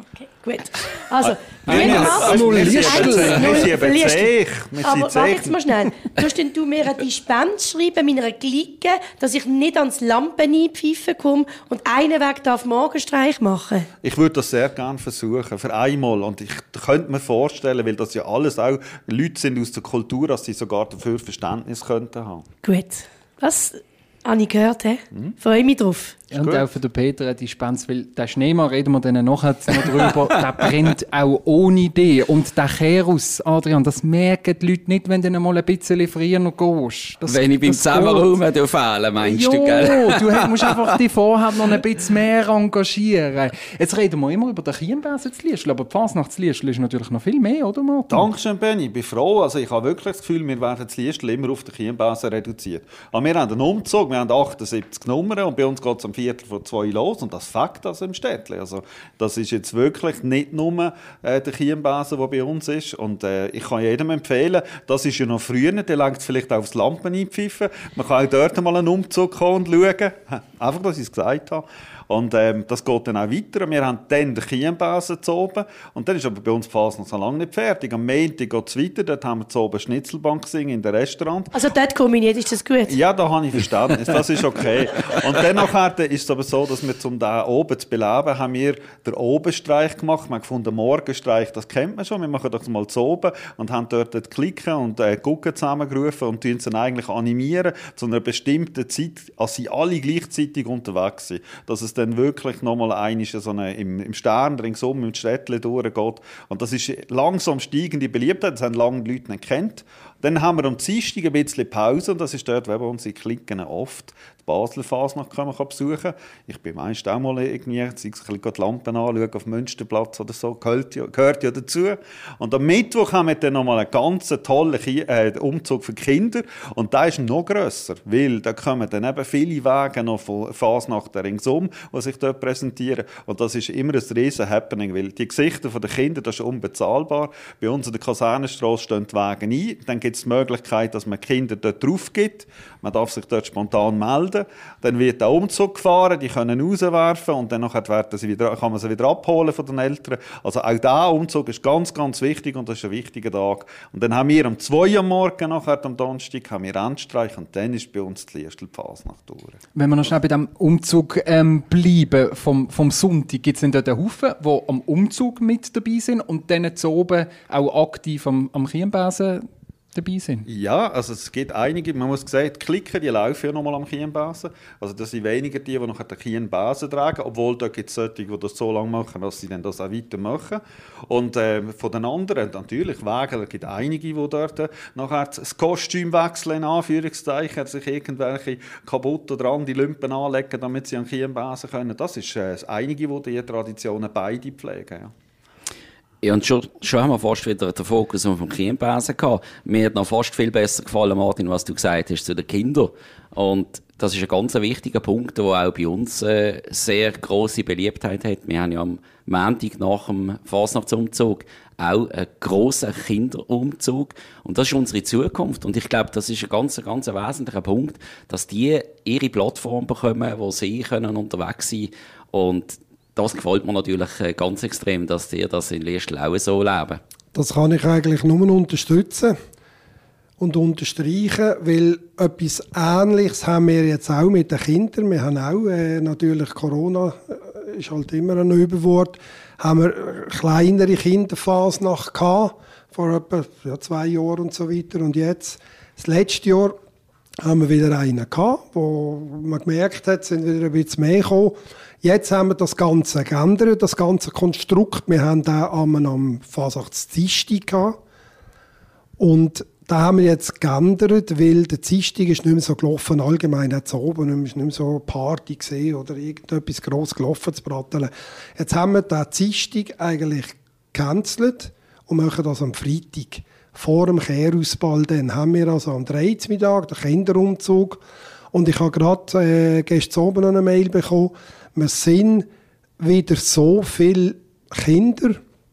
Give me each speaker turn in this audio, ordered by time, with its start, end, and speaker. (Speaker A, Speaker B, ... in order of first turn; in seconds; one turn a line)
Speaker A: 0.1-13.9
Speaker B: 1.2-5.6
Speaker C: 1.6-3.7
Speaker B: 14.0-22.4
Speaker A: 22.6-26.2
Speaker C: 26.3-38.4
Speaker B: 26.3-26.7
Speaker D: 37.3-40.7
Speaker C: 39.2-48.3
Speaker B: 48.1-81.5
Speaker A: 81.5-83.0
Speaker B: 82.9-159.6
Speaker C: 159.7-170.5
Speaker B: 170.5-195.1
Speaker D: 196.2-227.0
Speaker E: 227.3-229.4
Speaker E: 230.4-246.8
Speaker E: 247.4-258.0
Speaker E: 259.2-278.0
Speaker E: 278.5-282.5
Speaker E: 283.0-285.4